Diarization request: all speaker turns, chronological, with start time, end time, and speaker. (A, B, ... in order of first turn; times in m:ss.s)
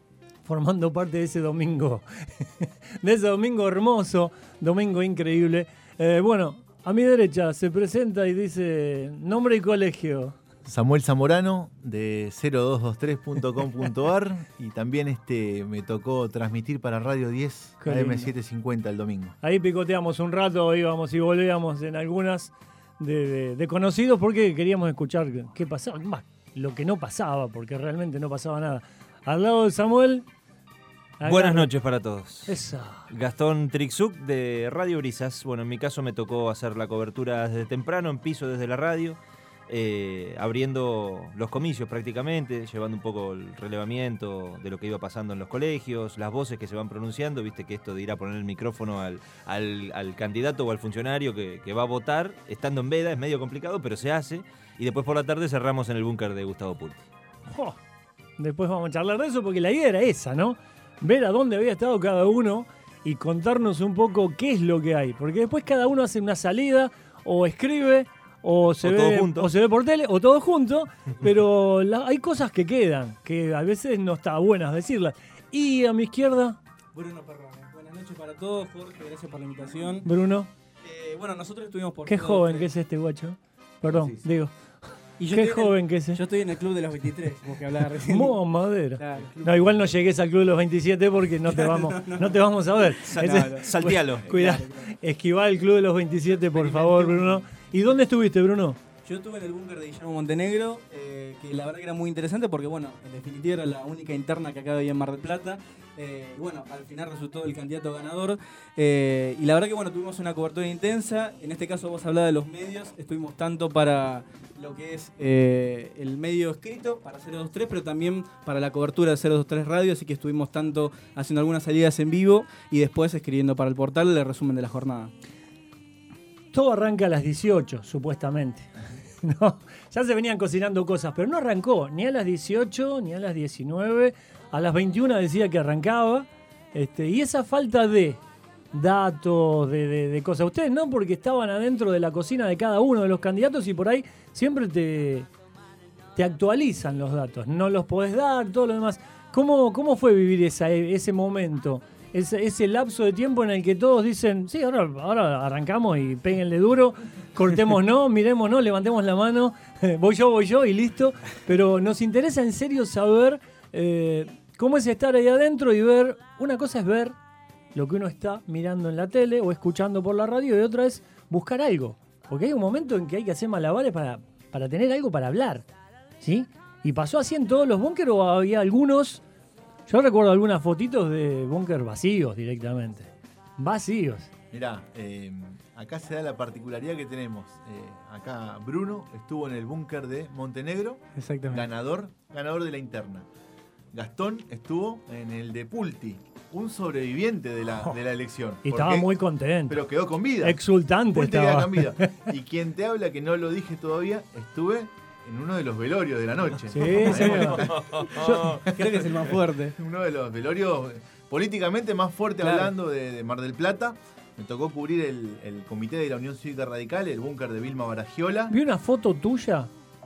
0:00.4-0:10.4 A
0:10.7-0:19.4 B
0:17.8-0:18.3 A
0:19.4-0:30.3 A
0:31.2-0:31.7 A
0:31.2-0:32.6 C
0:32.5-0:33.1 A
0:33.1-0:57.0 C
0:57.5-0:57.8 A
0:58.4-1:16.6 A
1:08.8-1:09.5 C
1:16.9-1:20.1 D
1:20.0-1:20.5 A
1:20.8-1:22.7 D
1:22.1-1:24.5 A
1:23.9-1:24.2 B
1:25.2-1:26.2 A
1:25.3-1:28.4 D
1:28.0-1:38.8 A
1:29.0-1:29.7 D
1:31.5-1:34.9 D
1:33.0-1:34.3 C
1:36.4-1:37.4 D
1:39.0-2:05.1 D
2:06.5-2:08.7 A
2:09.2-2:18.2 A
2:18.7-2:25.3 A
2:26.2-2:47.2 A
2:47.8-2:55.6 A
2:56.2-2:59.2 A
2:59.9-3:04.3 A
3:04.5-3:13.3 B
3:11.2-3:11.7 D
3:13.9-3:19.1 B
3:18.6-3:19.8 A
3:19.7-3:20.6 B
3:20.4-3:22.2 A
3:21.1-3:38.5 B
3:26.7-3:27.6 A
3:27.0-3:28.7 C
3:28.2-3:29.8 D
3:32.4-3:32.7 D
3:38.5-3:39.7 A